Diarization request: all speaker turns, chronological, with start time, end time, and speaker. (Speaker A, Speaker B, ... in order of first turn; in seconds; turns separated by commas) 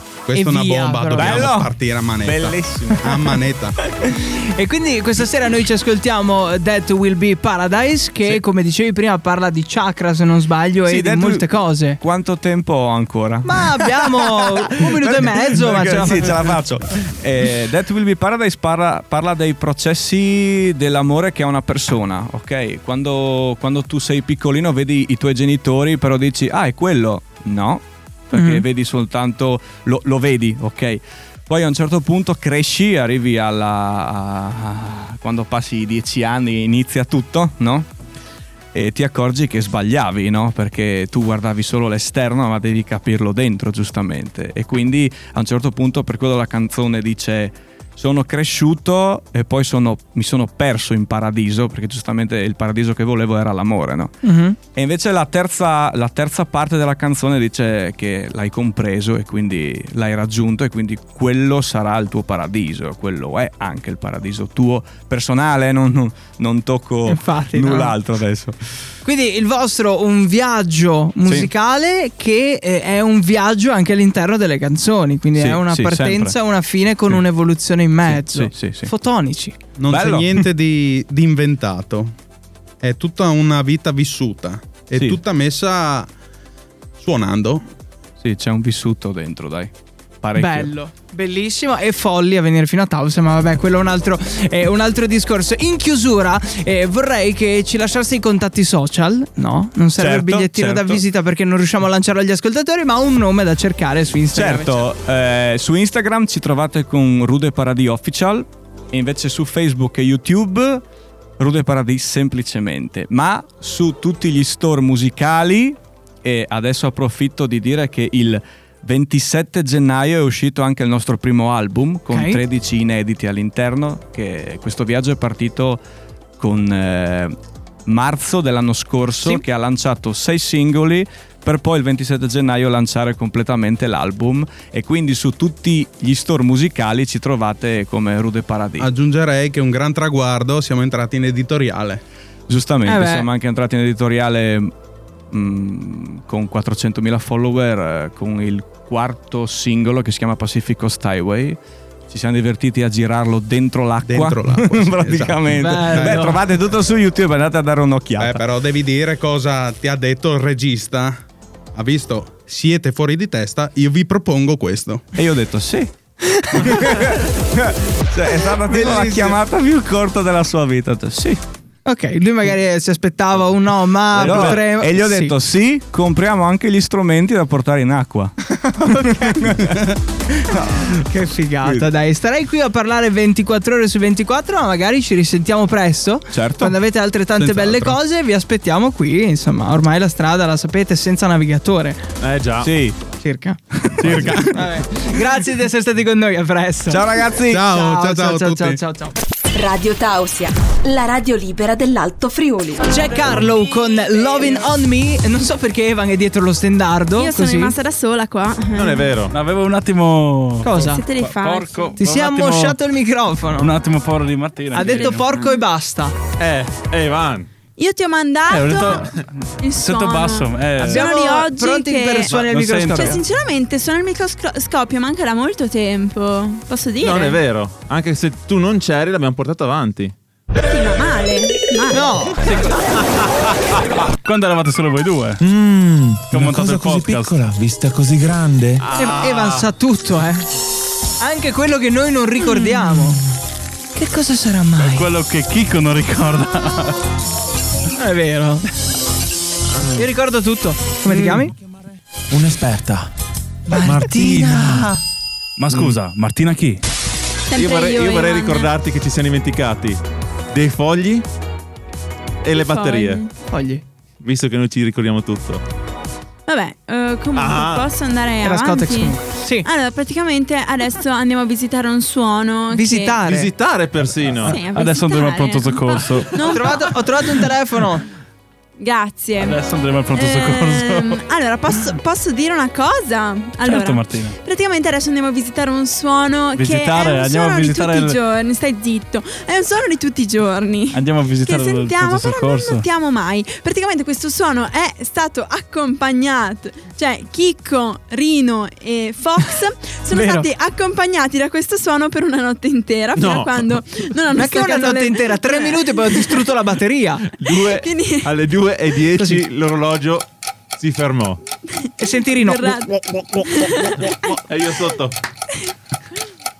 Speaker A: 0.3-3.8, Speaker B: 0.3-1.5, Speaker C: 1.1-3.3, Speaker B: 4.0-12.0, Speaker C: 10.9-37.9, Speaker B: 13.4-16.5, Speaker B: 28.3-28.6, Speaker C: 38.7-54.2, Speaker B: 54.2-54.6, Speaker C: 54.7-68.6, Speaker B: 67.1-68.0, Speaker B: 69.0-79.6, Speaker C: 71.2-71.5, Speaker C: 75.4-76.4, Speaker C: 78.0-78.9, Speaker A: 79.8-82.1, Speaker C: 79.9-80.5, Speaker A: 82.8-86.1, Speaker A: 87.0-87.6, Speaker C: 88.2-90.7, Speaker B: 90.4-104.8, Speaker C: 100.0-101.0, Speaker C: 104.3-110.8, Speaker C: 111.4-125.8, Speaker B: 122.1-122.4, Speaker C: 126.4-138.9, Speaker A: 138.8-142.0, Speaker C: 142.5-144.7, Speaker B: 142.9-143.3, Speaker C: 145.3-158.4, Speaker A: 154.0-156.3, Speaker B: 155.6-156.4, Speaker A: 158.2-161.2, Speaker A: 161.8-165.0, Speaker C: 165.2-165.9, Speaker B: 166.2-166.9, Speaker C: 166.6-171.4, Speaker B: 168.7-169.3, Speaker B: 171.9-175.3, Speaker C: 174.1-181.0, Speaker D: 174.2-174.6, Speaker B: 178.5-179.8, Speaker B: 180.7-192.0, Speaker C: 186.3-186.8, Speaker A: 187.5-187.8, Speaker D: 192.2-192.7, Speaker C: 192.6-193.0, Speaker B: 193.2-193.6, Speaker C: 193.7-194.5, Speaker D: 194.0-194.4, Speaker A: 194.1-194.5, Speaker B: 194.5-197.1, Speaker C: 196.9-197.7, Speaker A: 197.5-198.8, Speaker B: 197.7-199.1, Speaker E: 199.5-202.9, Speaker B: 202.9-207.7, Speaker F: 207.2-209.1, Speaker D: 208.8-209.3, Speaker G: 209.3-212.8, Speaker B: 210.6-211.0, Speaker F: 210.7-211.9, Speaker B: 212.0-213.7, Speaker G: 213.6-215.3, Speaker B: 214.7-216.2, Speaker F: 215.0-215.5, Speaker D: 216.4-217.5, Speaker F: 217.8-219.1, Speaker G: 218.5-221.1, Speaker F: 219.6-222.4, Speaker B: 220.8-223.2, Speaker G: 222.3-223.2, Speaker F: 222.9-227.4, Speaker D: 227.0-230.2, Speaker F: 230.6-232.2, Speaker B: 231.9-232.6, Speaker D: 232.5-233.8, Speaker G: 234.2-235.4, Speaker D: 235.4-237.2, Speaker G: 236.3-237.4, Speaker H: 236.6-238.5, Speaker D: 238.5-239.7, Speaker B: 238.9-240.4, Speaker B: 241.2-243.2, Speaker B: 243.9-245.1, Speaker G: 244.8-247.0, Speaker B: 248.0-248.7, Speaker D: 249.7-250.1, Speaker B: 250.0-251.5, Speaker D: 251.1-251.4, Speaker D: 252.3-252.8, Speaker H: 252.5-253.0, Speaker B: 253.7-255.0, Speaker D: 253.8-254.8, Speaker G: 255.6-256.8, Speaker D: 255.7-255.9, Speaker F: 257.5-258.7, Speaker D: 257.5-261.3, Speaker D: 262.4-263.2, Speaker F: 262.5-263.3, Speaker B: 263.5-263.8, Speaker D: 264.2-265.6, Speaker F: 266.5-273.2, Speaker D: 267.3-267.9, Speaker B: 268.4-269.7, Speaker B: 272.7-273.5, Speaker D: 273.2-274.6, Speaker F: 274.5-277.0, Speaker G: 274.5-276.9, Speaker B: 276.5-278.1, Speaker F: 278.8-279.6, Speaker G: 279.4-281.2, Speaker F: 280.1-306.4, Speaker G: 283.6-284.4, Speaker G: 286.6-288.2, Speaker G: 290.9-292.9, Speaker B: 300.1-300.5, Speaker D: 303.2-303.8, Speaker B: 304.4-307.3, Speaker D: 307.4-311.4, Speaker F: 307.7-308.3, Speaker B: 309.2-309.4, Speaker F: 311.8-312.9, Speaker B: 312.0-314.3, Speaker F: 313.5-314.1, Speaker D: 314.1-315.2